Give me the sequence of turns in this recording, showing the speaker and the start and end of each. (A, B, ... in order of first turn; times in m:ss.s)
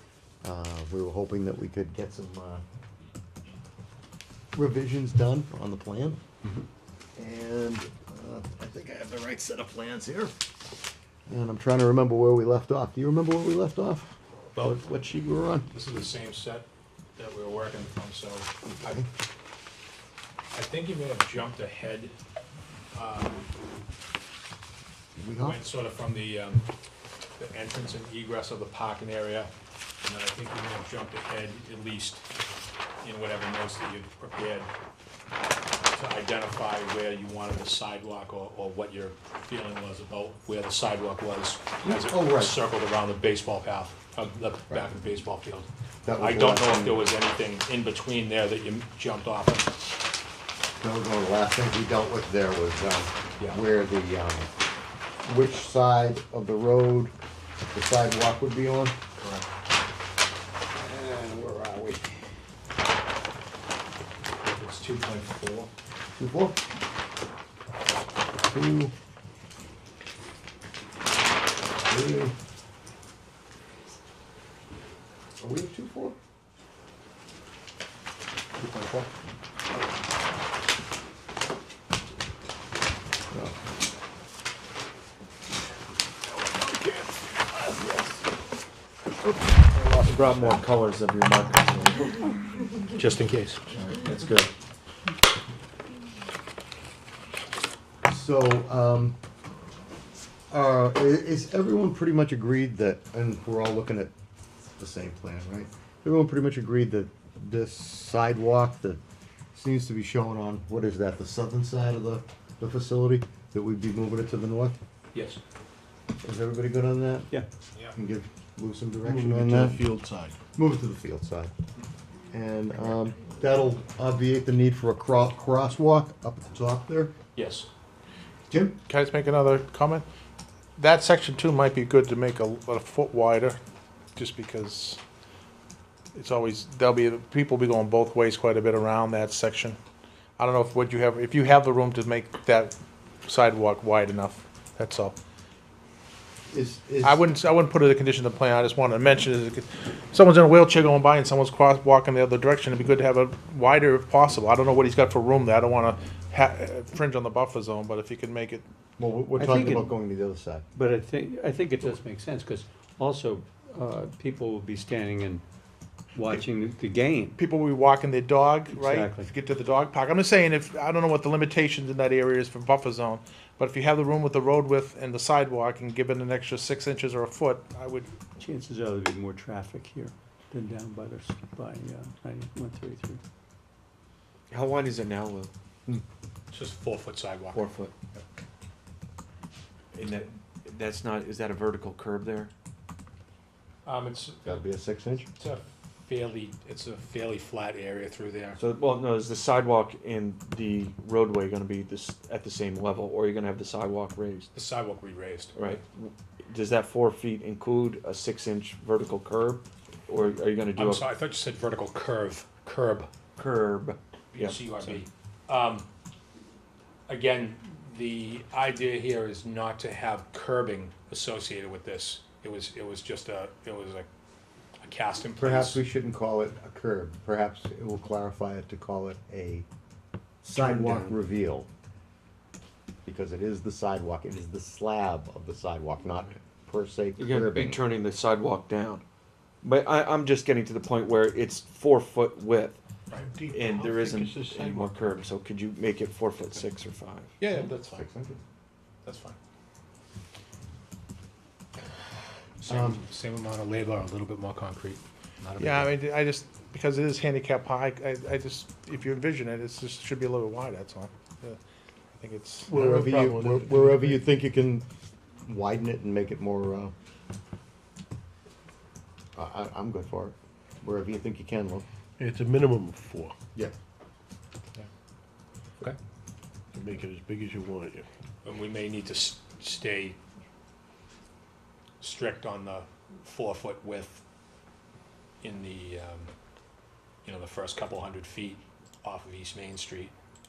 0:00.4-0:02.6 A
0:04.5-0:06.2 A
0:07.2-0:10.4 A
0:11.3-0:15.7 A
0:15.7-0:19.1 B
0:18.8-0:19.1 A
0:20.5-0:22.1 B
0:22.9-0:23.5 B
0:25.2-0:25.6 A
0:25.4-0:26.6 B
0:27.4-0:29.5 B
0:30.0-0:32.2 B
0:33.0-0:34.7 B
0:35.9-0:49.7 B
0:41.8-0:42.6 A
0:46.0-0:47.1 A
0:50.8-0:54.5 A
0:55.2-0:57.1 A
0:57.7-0:59.0 A
0:59.2-0:59.5 B
1:00.8-1:02.0 A
1:04.4-1:05.7 B
1:06.2-1:06.6 A
1:08.5-1:08.9 A
1:11.9-1:12.3 A
1:15.4-1:16.2 A
1:18.6-1:19.1 A
1:23.3-1:23.6 A
1:27.6-1:28.1 A
1:29.3-1:30.6 A
1:30.0-1:32.2 C
1:32.9-1:33.6 B
1:33.7-1:34.5 C
1:38.0-1:39.2 A
1:40.5-1:44.1 A
1:44.8-1:49.0 A
1:49.5-1:54.8 A
1:55.1-1:55.4 B
1:56.2-1:57.4 A
1:57.9-1:59.8 A
1:59.0-2:00.4 D
2:00.6-2:01.5 A
2:02.3-2:07.1 A
2:07.4-2:07.7 B
2:08.5-2:08.8 A
2:08.9-2:10.0 E
2:10.8-2:13.6 E
2:14.2-2:15.0 E
2:16.1-2:19.8 E
2:20.4-2:22.7 E
2:23.2-2:25.2 E
2:26.5-2:27.2 A
2:27.0-2:38.6 E
2:39.0-2:40.6 A
2:39.4-2:40.0 F
2:40.8-2:45.4 F
2:46.2-2:47.4 F
2:47.4-2:58.2 E
2:48.7-2:49.3 F
2:58.4-3:03.2 F
3:04.5-3:05.5 C
3:06.5-3:08.2 B
3:07.5-3:07.9 C
3:09.9-3:12.5 C
3:13.8-3:14.6 B
3:14.4-3:15.3 A
3:15.4-3:18.6 B
3:18.6-3:24.5 C
3:24.5-3:25.8 B
3:25.6-3:31.1 C
3:30.7-3:33.1 B
3:33.4-3:35.0 C
3:34.3-3:35.9 B
3:37.1-3:44.1 B
3:44.8-3:45.8 B
3:45.4-3:49.6 A
3:50.4-3:51.7 A
3:50.6-3:51.2 C
3:53.1-3:57.8 A
3:57.2-3:59.0 C
3:59.6-4:02.8 C
4:03.1-4:05.2 D
4:03.5-4:07.3 C
4:07.4-4:08.1 B
4:07.6-4:08.4 A
4:09.0-4:09.4 B
4:12.6-4:16.0 B
4:12.6-4:13.0 A
4:15.6-4:21.6 E
4:22.2-4:22.8 E
4:22.7-4:24.2 D
4:22.7-4:24.9 A
4:25.4-4:26.9 A
4:29.4-4:31.8 A
4:32.2-4:33.4 D
4:36.7-4:38.0 D
4:38.4-4:40.2 B
4:42.0-4:44.2 B
4:45.4-4:46.3 B
4:47.2-4:50.1 B